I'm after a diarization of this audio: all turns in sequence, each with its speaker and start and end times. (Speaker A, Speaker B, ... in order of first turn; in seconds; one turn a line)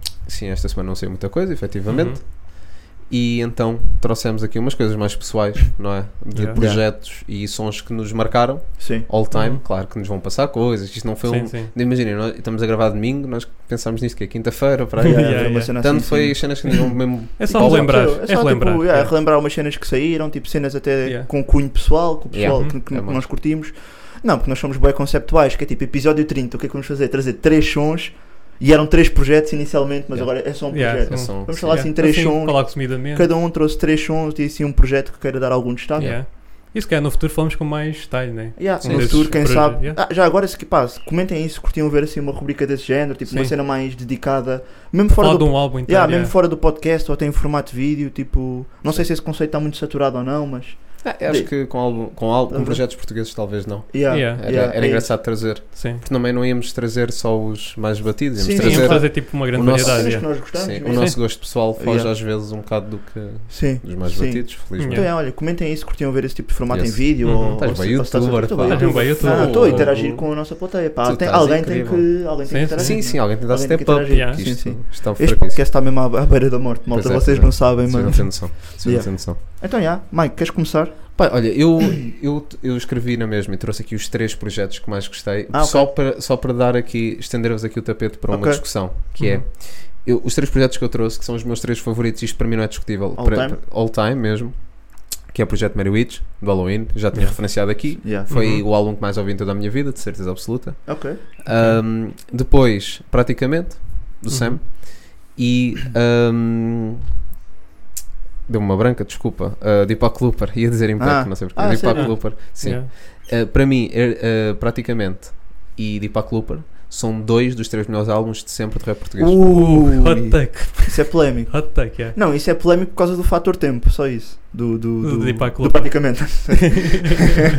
Speaker A: 0.2-18.1
Speaker B: 1.9-2.2
Speaker B: 6.3-6.6
Speaker C: 6.5-6.8
Speaker C: 8.8-9.1
Speaker B: 9.3-9.6
Speaker B: 11.2-11.7
Speaker B: 15.0-15.7
Speaker C: 15.0-36.2
Speaker B: 17.4-19.1
Speaker B: 21.0-21.3
Speaker A: 22.3-23.3
Speaker B: 22.5-22.7
Speaker A: 30.1-31.9
Speaker B: 30.7-33.3
Speaker A: 36.0-36.2
Speaker B: 36.0-40.0
Speaker C: 38.6-53.4
Speaker A: 38.8-39.5
Speaker B: 43.3-43.5
Speaker B: 45.1-46.3
Speaker A: 51.0-65.1
Speaker C: 53.9-55.4
Speaker B: 54.1-54.4
Speaker B: 55.7-56.0
Speaker C: 58.4-62.1
Speaker B: 58.5-61.2
Speaker C: 63.5-81.5
Speaker B: 64.8-65.1
Speaker A: 66.7-70.4
Speaker B: 67.2-67.9
Speaker B: 68.6-70.2
Speaker A: 71.0-75.7
Speaker B: 72.5-73.3
Speaker B: 74.1-74.5
Speaker A: 76.9-79.4
Speaker A: 81.1-107.0
Speaker C: 85.5-85.9
Speaker C: 88.3-88.7
Speaker B: 89.2-89.5
Speaker C: 93.2-93.6
Speaker B: 97.1-98.6
Speaker C: 97.9-98.3
Speaker C: 100.8-101.2
Speaker B: 101.5-101.8
Speaker B: 104.3-104.6
Speaker A: 108.5-119.8
Speaker C: 111.0-112.3
Speaker B: 111.9-112.9
Speaker C: 119.2-127.3
Speaker B: 119.5-122.2
Speaker B: 125.0-126.7